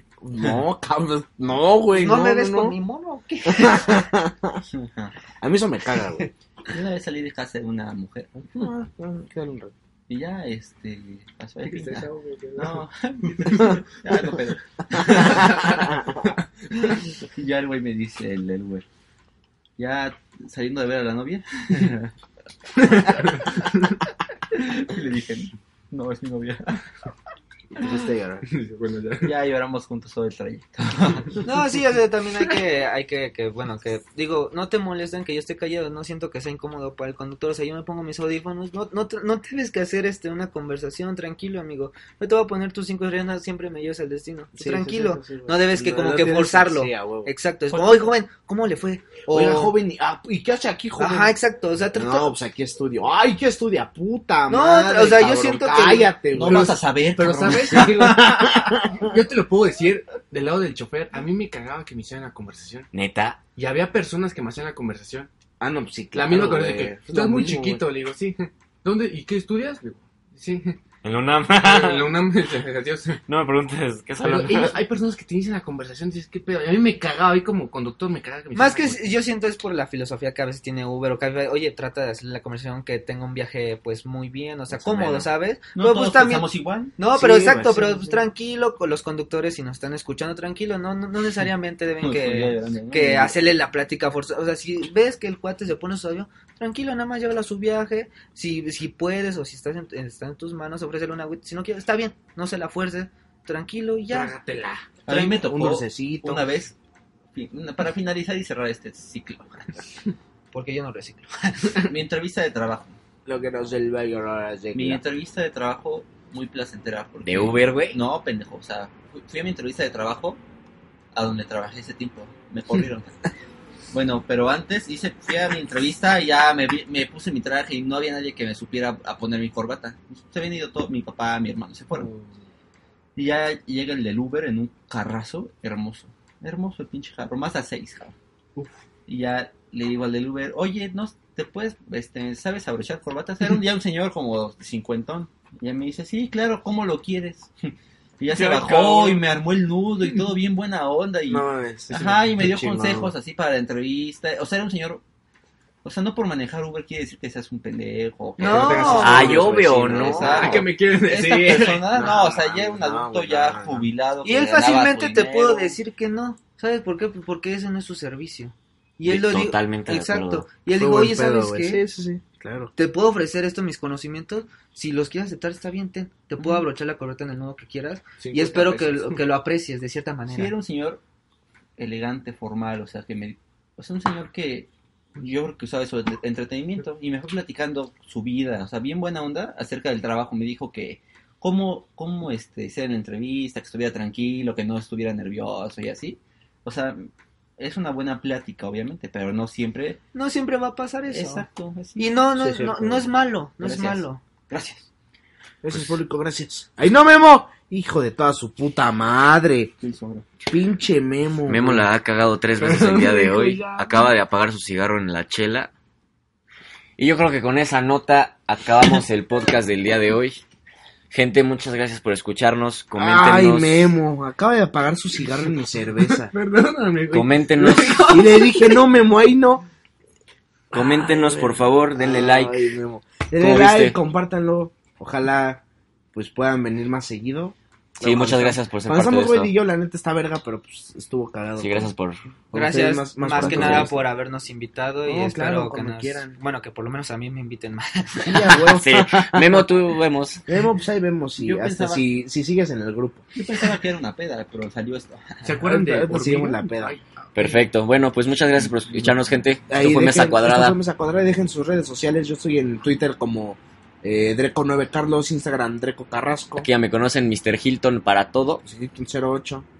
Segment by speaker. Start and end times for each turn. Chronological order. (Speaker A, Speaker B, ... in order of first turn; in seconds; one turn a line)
Speaker A: 0.2-2.8
Speaker B: 1.9-4.1
Speaker A: 3.4-4.6
Speaker C: 4.7-5.1
Speaker A: 5.4-6.3
Speaker C: 6.7-8.7
Speaker A: 8.5-9.7
Speaker C: 10.1-18.8
Speaker D: 11.6-13.9
Speaker D: 15.1-16.0
Speaker A: 15.1-15.8
Speaker C: 19.8-22.1
Speaker C: 22.8-23.6
Speaker D: 23.0-23.9
Speaker C: 24.5-26.8
Speaker A: 27.8-28.4
Speaker D: 28.4-29.3
Speaker C: 29.2-31.4
Speaker B: 31.4-49.7
Speaker A: 44.5-47.3
Speaker C: 47.7-48.1
Speaker A: 49.3-51.3
Speaker B: 51.0-52.3
Speaker A: 51.9-56.7
Speaker B: 54.5-56.1
Speaker C: 56.3-58.9
Speaker D: 56.4-58.1
Speaker A: 57.5-59.1
Speaker D: 58.9-62.9
Speaker E: 62.9-63.4
Speaker D: 63.5-65.3
Speaker A: 65.6-67.8
Speaker D: 66.1-70.8
Speaker E: 71.0-72.1
Speaker D: 71.5-73.2
Speaker E: 73.3-74.8
Speaker D: 74.2-79.2
Speaker B: 78.5-104.4
Speaker C: 84.7-87.1
Speaker A: 87.1-88.2
Speaker C: 92.0-93.4
Speaker D: 104.1-104.9
Speaker C: 105.0-106.7
Speaker B: 105.1-105.4
Speaker A: 105.2-106.5
Speaker C: 107.3-109.9
Speaker B: 110.5-111.9
Speaker C: 111.8-113.0
Speaker A: 113.2-115.0
Speaker C: 114.7-120.4
Speaker E: 117.2-118.0
Speaker C: 121.1-123.2
Speaker C: 123.9-132.1
Speaker D: 132.0-132.3
Speaker C: 133.2-138.2
Speaker C: 139.1-155.0
Speaker E: 148.3-149.2
Speaker D: 148.4-149.0
Speaker A: 151.3-153.1
Speaker C: 155.8-165.8
Speaker B: 158.4-159.3
Speaker A: 158.4-160.6
Speaker E: 159.0-160.6
Speaker B: 160.0-160.6
Speaker D: 160.2-161.9
Speaker A: 161.9-163.9
Speaker B: 164.2-171.8
Speaker E: 169.0-170.5
Speaker A: 170.7-172.7
Speaker B: 172.8-180.5
Speaker D: 178.2-179.2
Speaker C: 180.3-181.0
Speaker C: 181.8-200.0
Speaker B: 200.1-201.4
Speaker C: 201.1-202.1
Speaker B: 202.0-204.2
Speaker A: 202.3-203.1
Speaker C: 203.6-204.9
Speaker A: 205.6-209.7
Speaker E: 205.7-206.0
Speaker C: 209.8-210.3
Speaker A: 210.5-211.9
Speaker E: 211.4-215.7
Speaker D: 212.6-214.0
Speaker E: 217.0-220.4
Speaker E: 221.1-223.9
Speaker A: 222.9-226.3
Speaker D: 226.0-228.8
Speaker E: 227.1-228.2
Speaker A: 227.9-229.6
Speaker E: 230.7-232.7
Speaker A: 230.7-235.6
Speaker E: 233.4-234.0
Speaker A: 236.1-241.9
Speaker E: 238.0-239.5
Speaker E: 241.6-242.2
Speaker A: 242.5-244.0
Speaker B: 242.5-248.6
Speaker E: 243.3-243.9
Speaker A: 245.0-246.3
Speaker A: 248.2-249.7
Speaker E: 248.5-250.4
Speaker A: 250.4-253.2
Speaker C: 251.4-252.1
Speaker C: 253.3-255.6
Speaker D: 255.4-257.6
Speaker A: 255.6-256.9
Speaker E: 257.3-260.8
Speaker A: 259.7-266.7
Speaker E: 266.6-268.6
Speaker A: 268.6-269.6